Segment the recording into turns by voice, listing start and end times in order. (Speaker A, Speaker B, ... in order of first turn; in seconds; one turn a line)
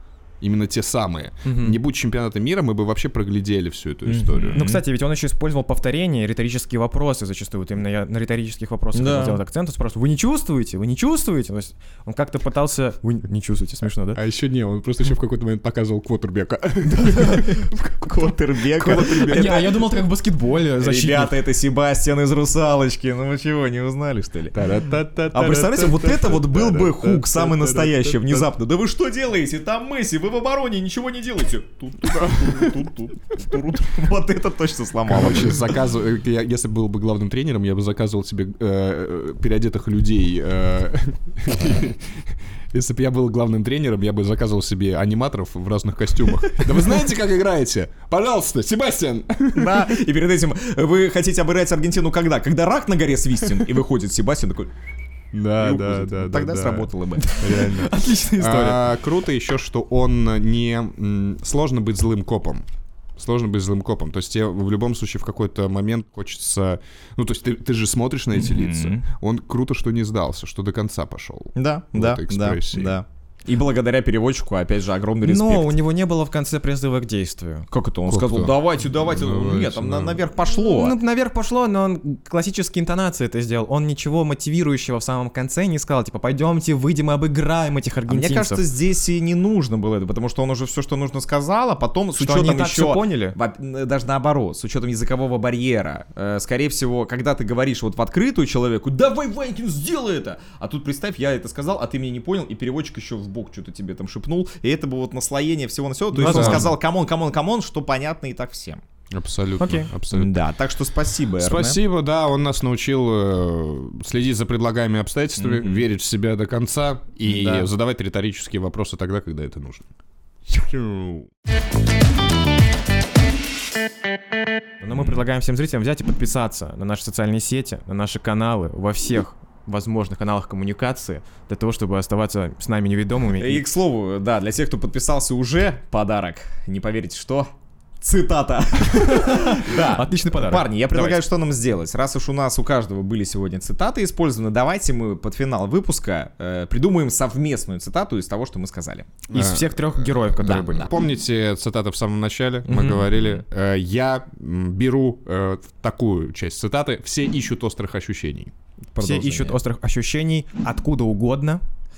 Speaker A: 0.4-4.6
Speaker B: 1.4-1.8
Speaker C: 4.0-4.8
Speaker B: 4.5-14.2
Speaker C: 8.9-9.4
Speaker A: 14.1-17.7
Speaker B: 16.9-17.5
Speaker C: 17.7-19.9
Speaker B: 18.8-21.4
Speaker A: 18.8-19.6
Speaker C: 20.8-24.6
Speaker A: 24.5-28.5
Speaker C: 25.3-35.8
Speaker A: 32.0-32.7
Speaker A: 35.0-49.9
Speaker C: 49.5-54.7
Speaker A: 55.3-62.6
Speaker C: 55.5-57.6
Speaker B: 57.2-58.8
Speaker A: 63.2-73.0
Speaker C: 68.3-69.0
Speaker C: 71.5-75.7
Speaker B: 75.2-77.7
Speaker C: 77.7-81.0
Speaker A: 78.1-80.2
Speaker B: 80.4-88.6
Speaker C: 88.1-108.8
Speaker B: 92.2-93.3
Speaker B: 106.1-106.7
Speaker A: 106.2-106.7
Speaker A: 109.1-110.4
Speaker B: 109.6-109.9
Speaker C: 110.1-111.8
Speaker A: 111.4-119.8
Speaker C: 115.4-115.9
Speaker C: 117.2-117.7
Speaker A: 120.5-121.3
Speaker B: 124.8-133.6
Speaker C: 133.4-149.2
Speaker B: 139.0-141.2
Speaker A: 149.3-158.5
Speaker B: 149.3-150.9
Speaker C: 150.4-150.9
Speaker B: 152.7-153.0
Speaker C: 158.9-159.6
Speaker B: 159.0-161.6